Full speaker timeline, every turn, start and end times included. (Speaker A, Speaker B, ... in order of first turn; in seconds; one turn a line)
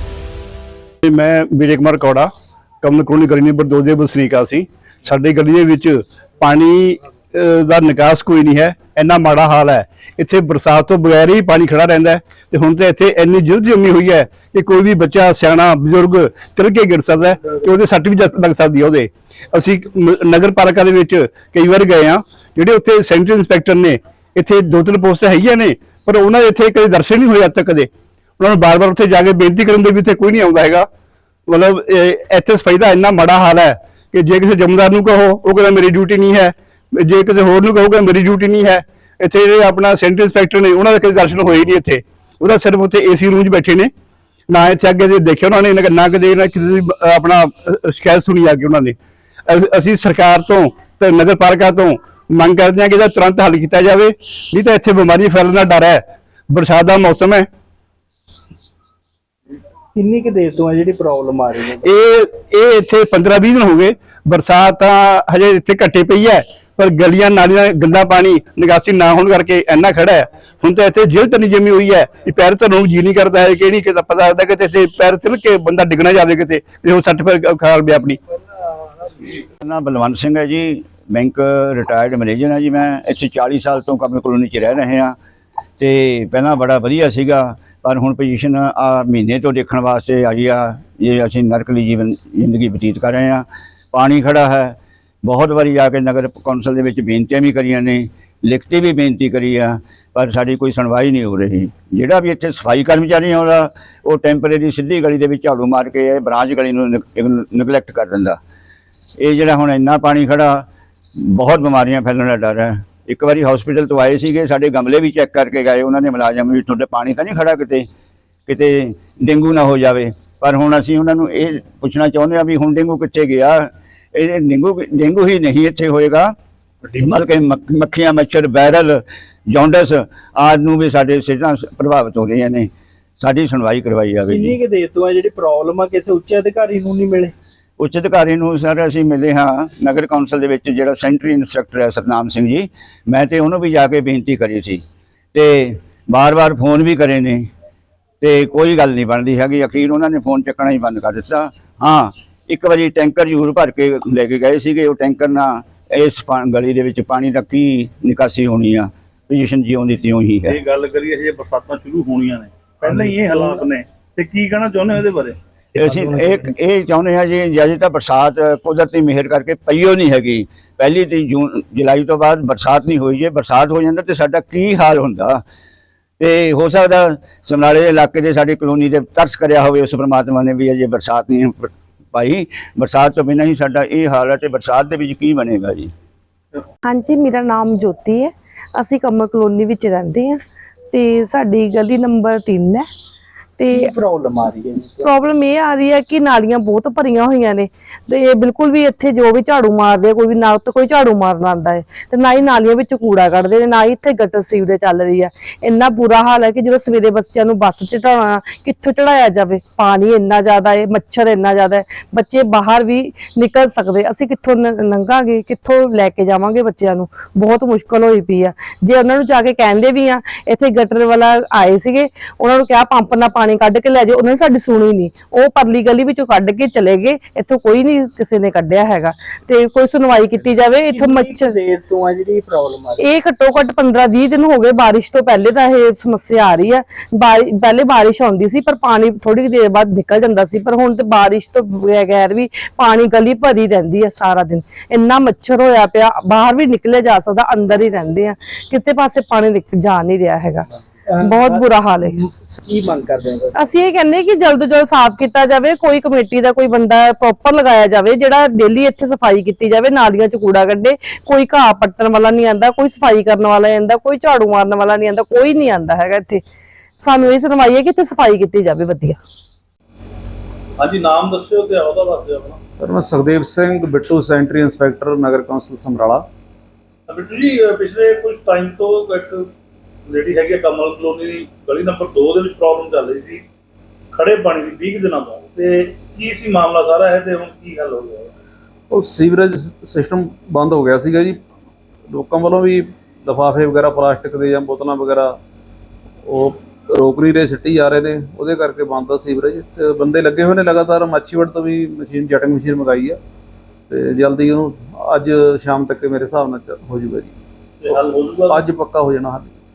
Speaker A: 1.0-2.3
Speaker A: 2.8-30.9
Speaker A: 31.5-43.9
Speaker A: 44.5-49.0
Speaker A: 49.5-57.5
Speaker B: 60.0-61.9
Speaker A: 61.8-78.2
Speaker C: 79.2-85.2
Speaker C: 85.8-108.4
Speaker C: 109.2-117.9
Speaker C: 118.5-126.3
Speaker C: 126.9-134.6
Speaker B: 134.3-137.3
Speaker C: 137.8-144.8
Speaker C: 145.3-147.5
Speaker C: 148.2-160.6
Speaker D: 160.5-165.4
Speaker C: 165.8-175.4
Speaker C: 176.2-185.9
Speaker E: 186.8-190.4
Speaker E: 190.9-192.9
Speaker E: 193.6-193.9
Speaker B: 193.7-195.0
Speaker E: 195.0-231.6
Speaker B: 230.9-233.0
Speaker E: 233.0-250.7
Speaker B: 251.1-253.6
Speaker E: 251.2-252.2
Speaker E: 253.6-266.4
Speaker E: 267.0-269.2
Speaker D: 270.8-272.6
Speaker F: 272.8-276.3
Speaker D: 277.1-279.5
Speaker D: 280.1-283.4
Speaker D: 284.1-288.3
Speaker F: 288.9-291.4
Speaker F: 292.1-295.4
Speaker F: 296.2-303.2
Speaker F: 303.9-307.3
Speaker D: 307.8-308.7
Speaker F: 307.9-309.6